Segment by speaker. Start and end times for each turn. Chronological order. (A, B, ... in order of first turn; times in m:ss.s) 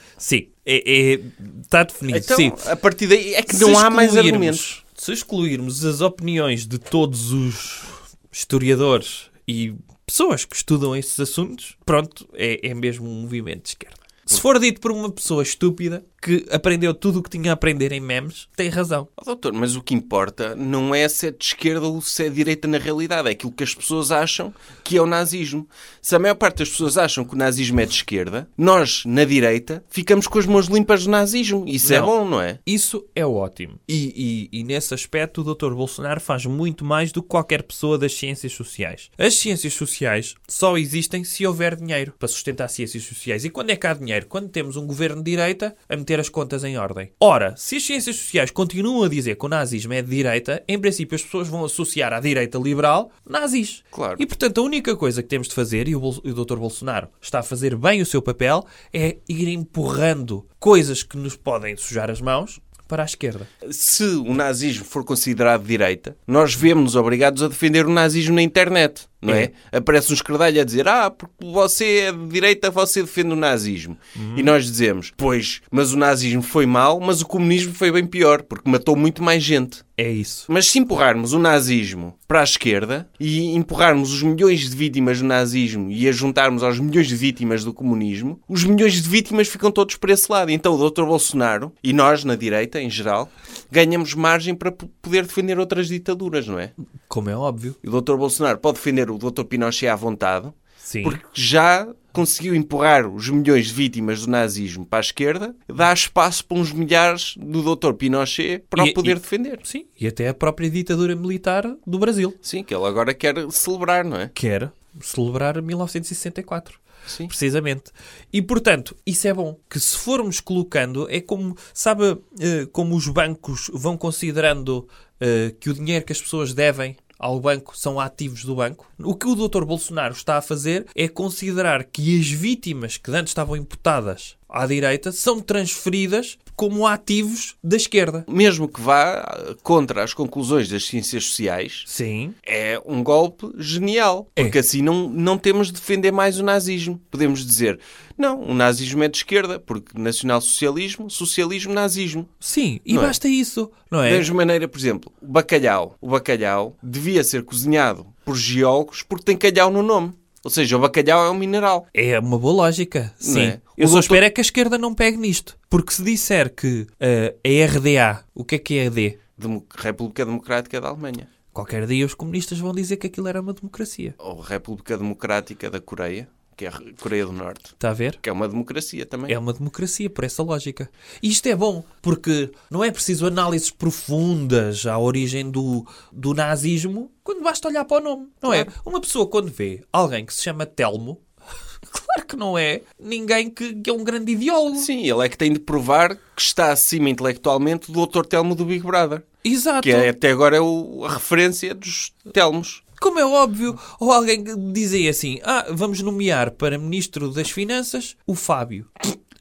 0:00.2-0:02.6 A
0:02.1-0:04.7 B
0:03.5-0:19.1 A
0:19.2-0:32.6 B
0:31.8-0:32.1 A
0:32.6-1:03.5 A
0:53.9-0:54.2 B
1:03.6-1:19.8 B
1:14.2-1:14.6 A
1:20.0-1:20.5 A
1:20.5-1:36.7 B
1:37.1-1:37.8 A
1:37.8-1:49.6 B
1:40.8-1:41.2 A
1:48.8-1:52.4 A
1:52.4-1:54.3 B
1:54.4-2:18.3 A
1:57.1-1:57.3 B
2:18.3-2:21.9 B
2:21.9-2:22.4 A
2:22.4-2:32.3 B
2:32.4-2:34.3 A
2:32.9-2:33.2 B
2:34.1-2:41.9 B
2:41.9-2:49.2 A
2:43.2-2:44.2 B
2:49.4-2:51.3 B
2:51.5-2:54.2 A
2:54.2-2:59.4 B
2:57.8-2:58.2 A
2:59.3-3:11.2 A
3:08.4-3:08.7 B
3:11.9-3:14.9 A
3:14.8-3:19.3 B
3:19.4-3:20.1 A
3:19.8-3:22.8 B
3:23.0-3:29.1 A